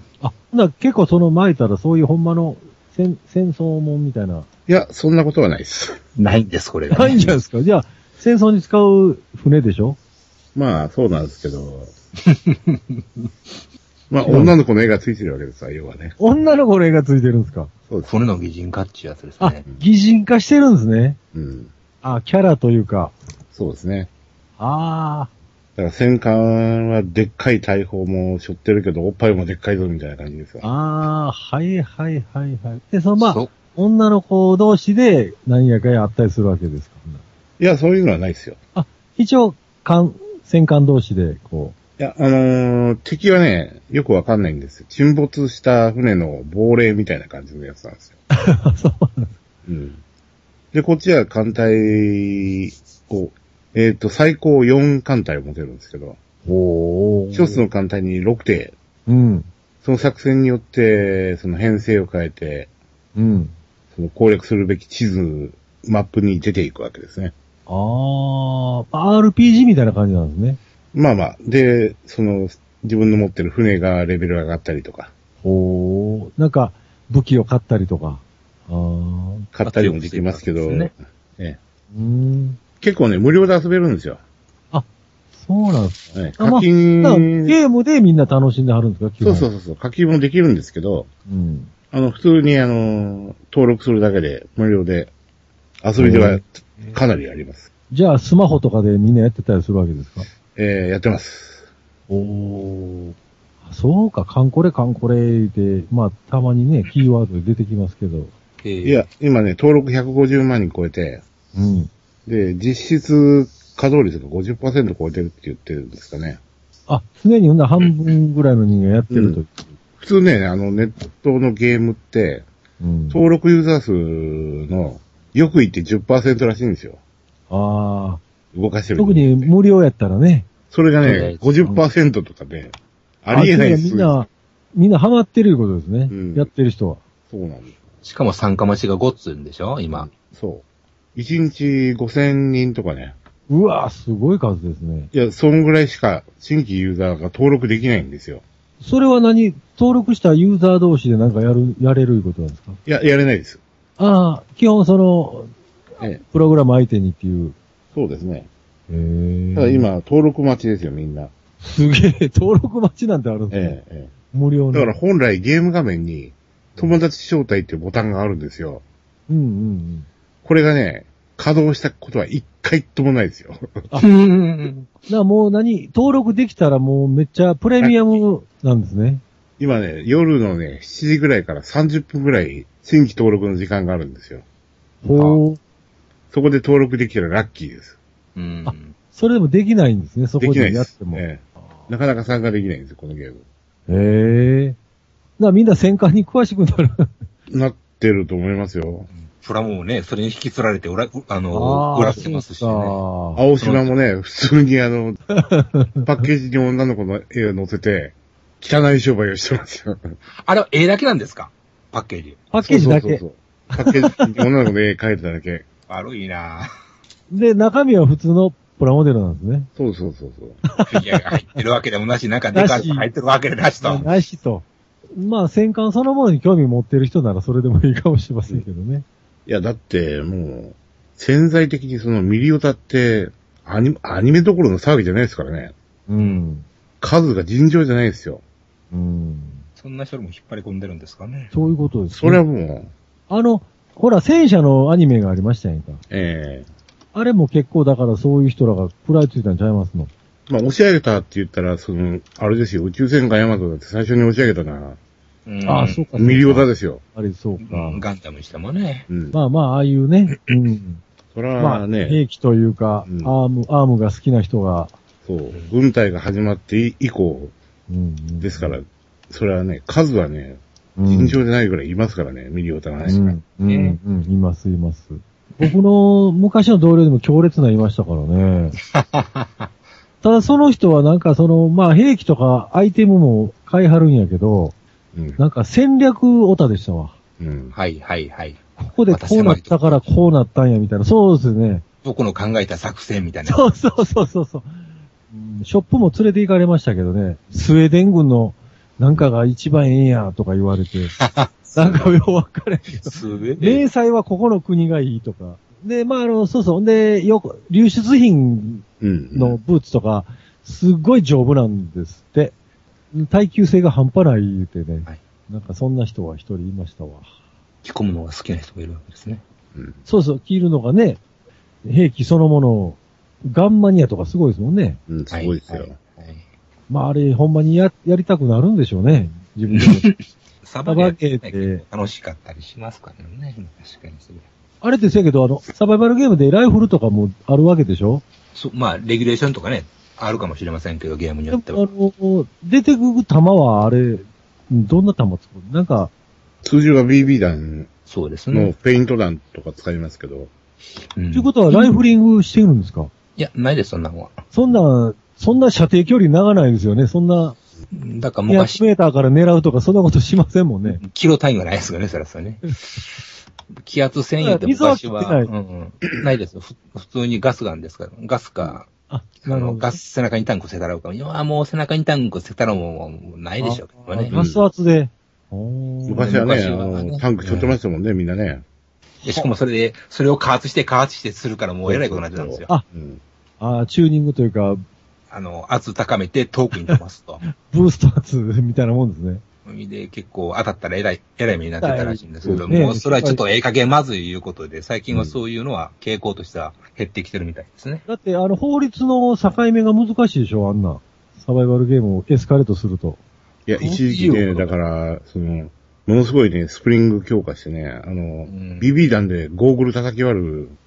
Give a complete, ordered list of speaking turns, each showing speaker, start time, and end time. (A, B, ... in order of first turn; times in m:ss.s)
0:00.2-0:04.5 A
0:04.7-0:06.0 B
0:06.2-0:07.4 C
0:06.9-0:10.0 A
0:10.6-0:11.9 B
0:12.2-0:13.0 C
0:14.1-0:16.2 B
0:14.2-0:14.5 A
0:16.2-0:17.7 A
0:18.0-0:19.6 C
0:19.4-0:21.2 A
0:21.3-0:21.7 B
0:22.0-0:23.1 A
0:23.5-0:24.1 B
0:24.6-0:25.3 A
0:25.8-0:30.6 B
0:30.6-0:37.2 A
0:33.2-0:33.5 C
0:37.6-0:38.6 B
0:38.8-0:41.8 A
0:42.0-0:48.2 B
0:48.3-0:49.3 A
0:49.7-0:50.0 B
0:50.7-0:56.2 B
0:56.4-0:57.6 A
0:57.3-0:58.8 B
0:59.1-0:59.5 A
0:59.8-1:02.7 B
1:03.2-1:03.5 A
1:03.9-1:07.3 B
1:07.7-1:10.6 A
1:10.9-1:15.1 B
1:15.4-1:19.5 A
1:19.5-1:21.6 B
1:19.6-1:20.9 C
1:21.9-1:22.6 A
1:22.8-1:24.2 B
1:24.7-1:29.5 A
1:26.2-1:27.6 B
1:29.2-1:31.1 B
1:31.3-1:31.7 A
1:31.9-1:35.1 B
1:35.8-1:37.7 B
1:36.0-1:36.9 A
1:37.9-1:40.3 A
1:40.6-1:41.7 B
1:42.1-1:48.3 A
1:48.6-1:49.0 C
1:48.8-1:51.2 B
1:51.5-1:51.9 A
1:52.3-1:56.4 B
1:56.9-1:59.7 A
1:59.1-1:59.4 B
2:00.0-2:02.5 B
2:02.8-2:03.2 A
2:03.1-2:07.0 B
2:07.5-2:08.2 A
2:08.5-2:09.5 B
2:09.0-2:10.5 A
2:10.7-2:14.2 B
2:11.0-2:11.5 C
2:13.3-2:17.0 A
2:16.1-2:16.5 B
2:17.3-2:17.8 B
2:18.0-2:20.1 C
2:19.9-2:20.6 B
2:21.2-2:23.2 B
2:23.5-2:25.1 A
2:25.1-2:28.4 B
2:28.8-2:32.8 A
2:32.9-2:33.6 B
2:34.0-2:35.5 A
2:36.2-2:37.6 A
2:37.9-2:38.5 B
2:38.9-2:39.9 A
2:39.6-2:41.3 B
2:41.6-2:45.0 A
2:43.5-2:44.1 B
2:44.7-2:48.8 B
2:49.3-2:50.1 A
2:50.4-2:53.8 B
2:54.0-2:54.9 C
2:55.1-2:59.2 A
2:59.6-3:04.4 B
3:05.0-3:05.6 A
3:05.1-3:05.4 C
3:06.3-3:08.0 B
3:08.4-3:09.0 C
3:08.6-3:11.2 A
3:10.4-3:13.4 B
3:13.9-3:14.8 A
3:15.4-3:17.1 A
3:17.5-3:19.1 B
3:19.1-3:23.0 C
3:21.5-3:23.4 A
3:23.4-3:25.2 B
3:23.6-3:23.9 C
3:25.3-3:26.1 A
3:26.0-3:30.1 B
3:30.4-3:32.4 C
3:32.5-3:33.2 A
3:32.6-3:35.7 B
3:33.7-3:34.3 A
3:35.9-3:36.7 C
3:37.3-3:39.7 A
3:39.8-3:40.6 B
3:40.6-3:41.6 A
3:40.9-3:44.1 C
3:42.5-3:43.1 A
3:43.8-3:49.0 A
3:49.5-3:55.7 B
3:56.1-3:56.6 A
3:57.0-3:58.4 B
3:58.9-3:59.6 A
3:59.8-4:01.5 C
4:01.5-4:02.4 A
4:02.1-4:02.9 B
4:03.3-4:06.0 A
4:06.1-4:06.7 B
4:07.1-4:10.1 A
4:10.5-4:15.0 B
4:15.5-4:16.4 C
4:15.7-4:18.0 A
4:16.2-4:17.0 B
4:17.6-4:19.1 C
4:19.1-4:19.4 B
4:19.3-4:21.0 A
4:21.3-4:22.2 B
4:21.6-4:24.9 A
4:23.1-4:23.3 B
4:25.2-4:27.6 B
4:27.9-4:28.8 A
4:28.4-4:33.4 B
4:31.0-4:31.4 A
4:33.0-4:38.8 A
4:33.7-4:34.0 C
4:38.8-4:39.7 C
4:40.2-4:44.8 A
4:45.4-4:47.2 A
4:47.4-4:47.7 B
4:47.7-4:50.0 C
4:48.8-4:51.8 A
4:52.0-4:53.6 C
4:53.5-4:54.8 A
4:55.3-5:01.1 A
5:01.2-5:02.1 C
5:01.8-5:12.5 A
5:03.0-5:03.9 C
5:09.0-5:09.6 B
5:13.1-5:17.3 A
5:17.8-5:19.4 C
5:20.1-5:21.2 A
5:21.8-5:25.0 A
5:25.1-5:26.0 B
5:25.3-5:26.4 C
5:26.9-5:30.1 A
5:29.7-5:34.5 C
5:30.9-5:31.8 A
5:34.8-5:38.2 A
5:38.6-5:41.9 C
5:41.5-5:46.1 A
5:46.6-5:47.9 B
5:48.1-5:48.7 C
5:48.5-5:50.5 B
5:51.2-5:51.9 C
5:51.3-5:53.1 A
5:53.4-5:54.4 C
5:54.5-5:57.6 A
5:57.9-5:58.8 C
5:58.5-6:01.0 A
6:00.9-6:03.2 C
6:03.8-6:08.9 C
6:04.4-6:05.5 A
6:09.1-6:10.0 A
6:09.4-6:14.4 C
6:13.6-6:16.4 A
6:14.3-6:14.6 B
6:16.1-6:18.6 B
6:16.2-6:17.8 C
6:19.2-6:22.7 C
6:21.9-6:23.2 B
6:23.6-6:24.8 A
6:25.3-6:27.4 C
6:26.7-6:29.4 A
6:29.6-6:38.0 C
6:31.8-6:33.4 A
6:32.4-6:32.7 B
6:35.1-6:35.4 B
6:38.1-6:43.2 A
6:43.7-6:50.8 B
6:43.8-6:44.4 A
6:43.8-6:44.7 C
6:48.5-6:48.9 C